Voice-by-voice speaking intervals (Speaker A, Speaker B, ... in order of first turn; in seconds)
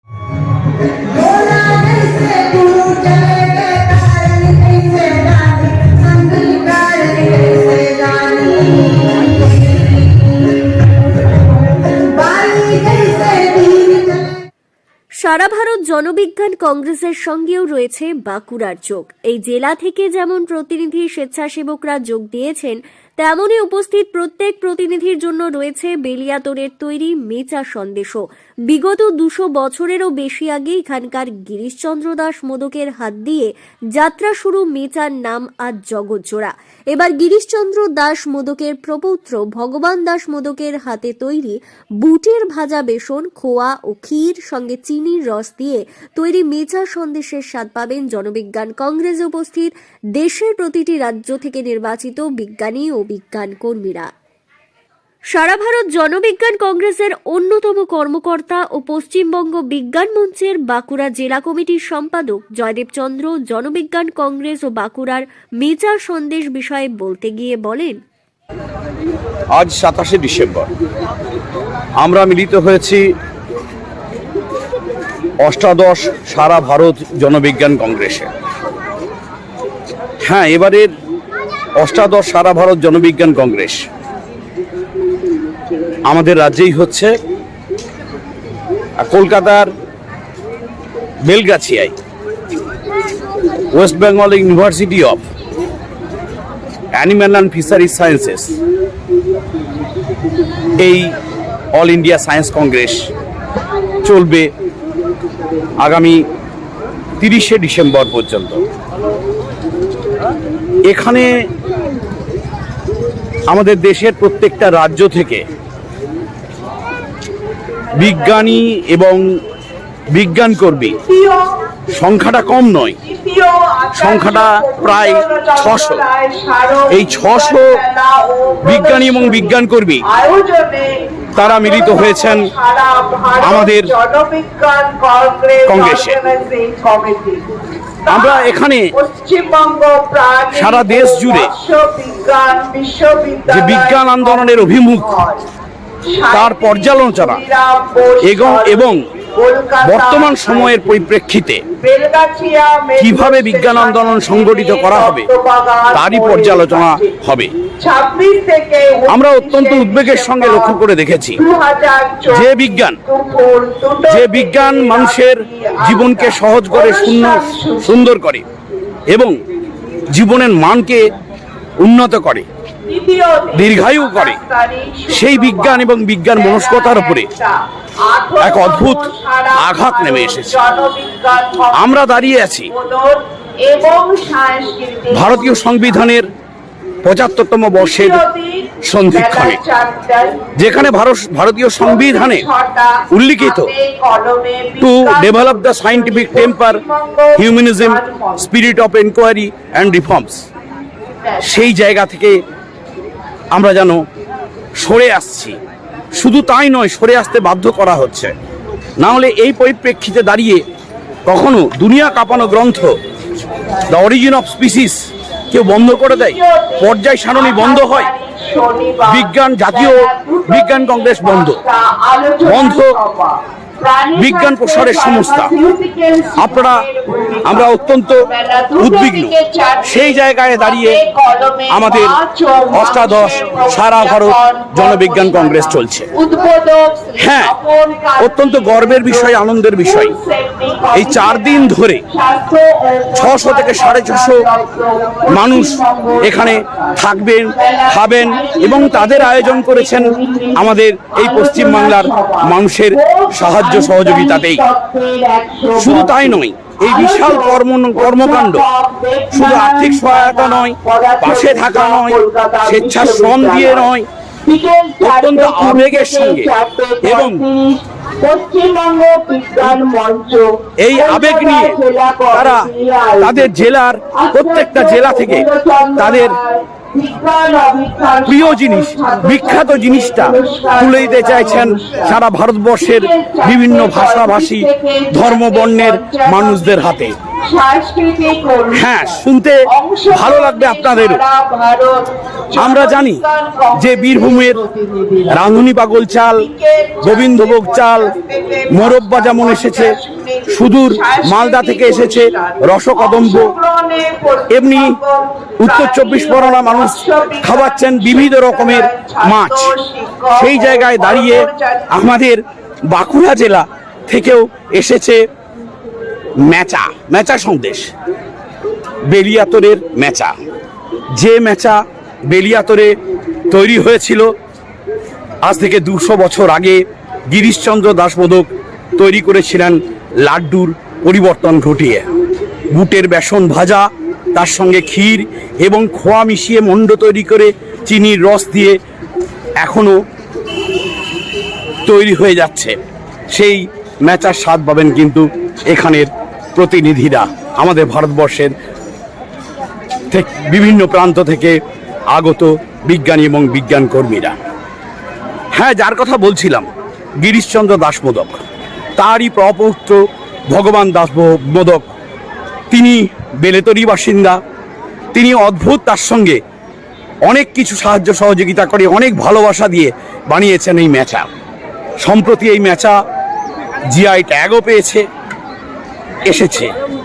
Speaker A: 1.2-8.5, 12.2-14.1, 121.1-121.5, 123.0-137.4, 138.1-145.4, 146.1-151.0, 151.8-157.2, 157.8-160.8, 161.4-168.1, 172.9-185.9, 187.8-190.5, 191.8-198.6, 201.2-201.6, 216.1-227.7, 228.2-263.9, 264.4-273.6, 274.1-282.2, 282.8-286.8, 287.4-295.5, 296.4-311.9
Speaker B: 15.2-54.1, 55.3-68.0
Speaker C: 69.5-70.7, 72.0-73.0, 75.4-78.3, 80.2-80.9, 81.8-83.8, 86.1-87.1, 89.0-89.7, 91.2-91.9, 93.7-95.2, 96.9-98.6, 100.8-101.1, 101.8-103.1, 104.0-104.5, 105.8-106.2, 107.2-108.6, 110.9-111.3, 113.5-115.4, 117.9-119.2, 120.1-121.0, 121.9-123.0, 123.9-126.0, 126.9-127.7, 128.6-130.0, 131.3-132.5, 133.4-133.9, 135.7-136.2, 138.1-138.9, 140.5-141.5, 143.5-145.1, 146.3-147.4, 148.2-149.0, 149.8-151.6, 153.0-155.3, 155.9-157.5, 159.1-161.4, 162.3-163.0, 164.1-168.4, 170.1-171.0, 171.8-172.5, 173.5-174.4, 175.1-177.3, 178.4-180.6, 181.7-182.7, 185.1-186.3, 187.0-188.2, 188.8-189.6, 190.6-192.4, 193.1-193.7, 194.8-196.8, 197.4-200.4, 201.4-202.4, 203.5-204.0, 204.8-205.6, 206.2-208.3, 209.0-210.6, 211.3-212.9, 213.9-215.0, 215.5-218.1, 219.1-221.6, 222.4-222.9, 224.1-225.5, 226.4-226.9, 227.4-228.2, 228.8-229.3, 229.8-231.0, 231.7-232.2, 232.7-236.1, 237.2-237.5, 238.2-240.1, 240.9-242.0, 243.1-244.4, 245.3-254.6, 255.8-258.6, 259.3-264.1, 265.0-266.5, 267.0-267.4, 270.8-271.8, 272.3-272.6, 273.2-276.4, 278.2-287.1, 288.7-291.2, 292.6-293.2, 293.8-294.6, 295.3-296.4, 297.0-298.1, 298.7-299.9, 300.5-303.5, 304.5-305.0, 305.6-309.7, 310.3-315.2, 316.4-317.9, 319.1-320.3, 321.1-322.9, 323.5-324.2, 325.4-332.1, 332.7-338.8, 339.6-340.0, 341.9-342.8, 343.3-348.5, 350.1-351.6, 352.1-354.4, 355.6-356.7, 357.2-358.4, 359.0-361.9, 362.7-364.4, 365.1-366.4, 367.3-371.3, 372.0-373.0, 373.9-375.0, 376.2-376.7